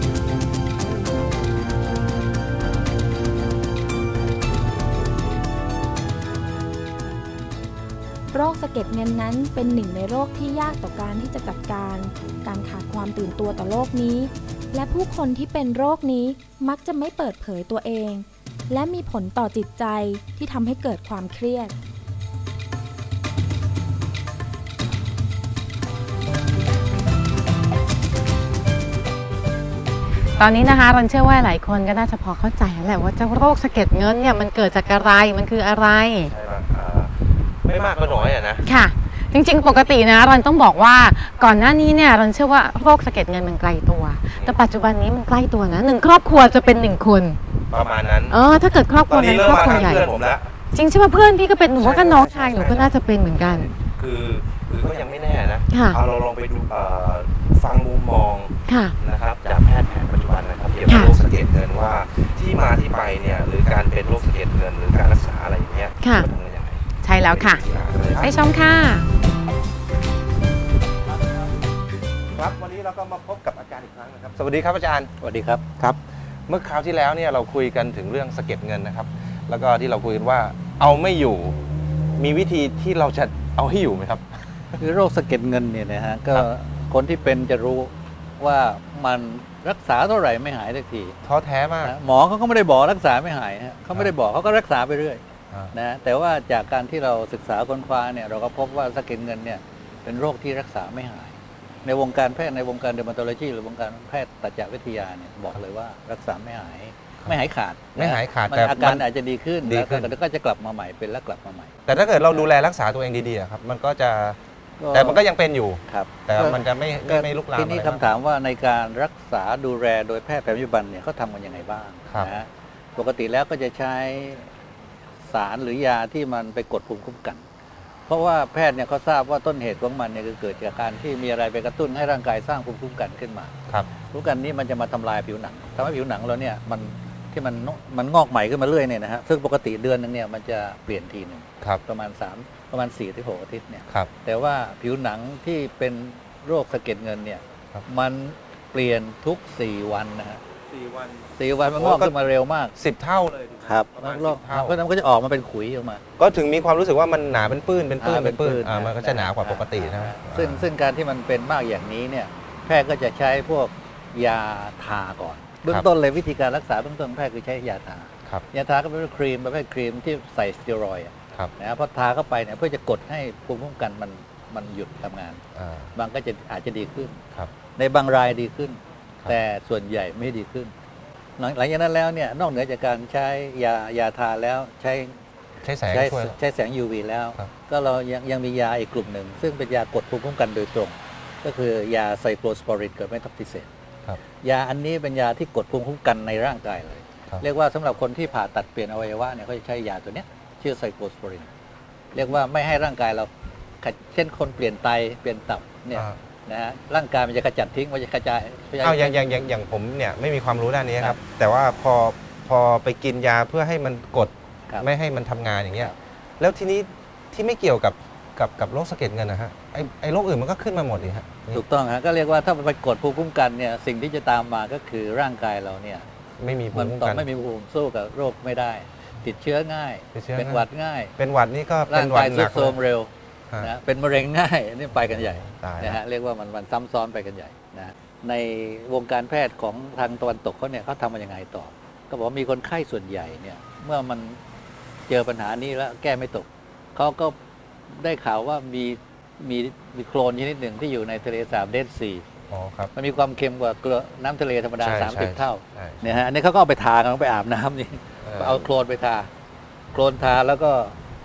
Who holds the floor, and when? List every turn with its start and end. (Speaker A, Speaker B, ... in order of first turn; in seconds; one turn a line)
Speaker A: 8.3-21.7
Speaker B: 30.4-36.3
Speaker C: 36.2-38.6
Speaker B: 38.6-47.4
Speaker C: 44.3-44.6
Speaker C: 47.7-48.4
Speaker B: 48.3-50.1
Speaker C: 49.1-50.5
Speaker B: 50.7-53.7
Speaker C: 51.8-68.3
Speaker B: 55.7-56.0
Speaker B: 58.7-58.9
Speaker B: 60.9-61.1
Speaker B: 66.0-66.3
Speaker B: 67.0-67.6
Speaker B: 68.2-69.1
Speaker C: 72.3-75.1
Speaker D: 75.2-75.6
Speaker C: 75.8-81.6
Speaker C: 82.2-84.8
Speaker D: 84.8-91.1
Speaker C: 91.2-91.9
Speaker D: 91.8-95.2
Speaker D: 95.7-111.7
Speaker C: 108.0-109.0
Speaker C: 109.6-110.1
Speaker C: 111.9-114.4
Speaker D: 114.8-115.2
Speaker C: 114.9-118.0
Speaker D: 115.9-124.5
Speaker D: 125.3-127.4
Speaker D: 128.1-150.4
Speaker C: 150.7-151.2
Speaker D: 151.3-152.7
Speaker C: 151.8-152.1
Speaker C: 152.8-154.8
Speaker D: 153.6-156.0
Speaker C: 156.2-160.6
Speaker D: 158.0-175.4
Speaker C: 175.6-175.9
Speaker D: 175.9-180.7
Speaker D: 181.4-185.1
Speaker C: 185.6-186.3
Speaker D: 185.9-193.7
Speaker D: 194.3-201.5
Speaker D: 202.1-203.3
Speaker D: 203.8-209.3
Speaker C: 208.8-221.6
Speaker D: 221.5-226.1
Speaker C: 226.4-227.2
Speaker D: 226.7-231.1
Speaker C: 230.1-230.6
Speaker C: 231.2-232.7
Speaker D: 231.9-233.1
Speaker D: 233.6-244.4
Speaker C: 235.3-236.0
Speaker D: 245.1-247.3
Speaker D: 248.0-252.2
Speaker C: 252.5-252.9
Speaker D: 252.9-259.3
Speaker C: 254.8-256.1
Speaker C: 258.2-258.6
Speaker D: 259.9-260.9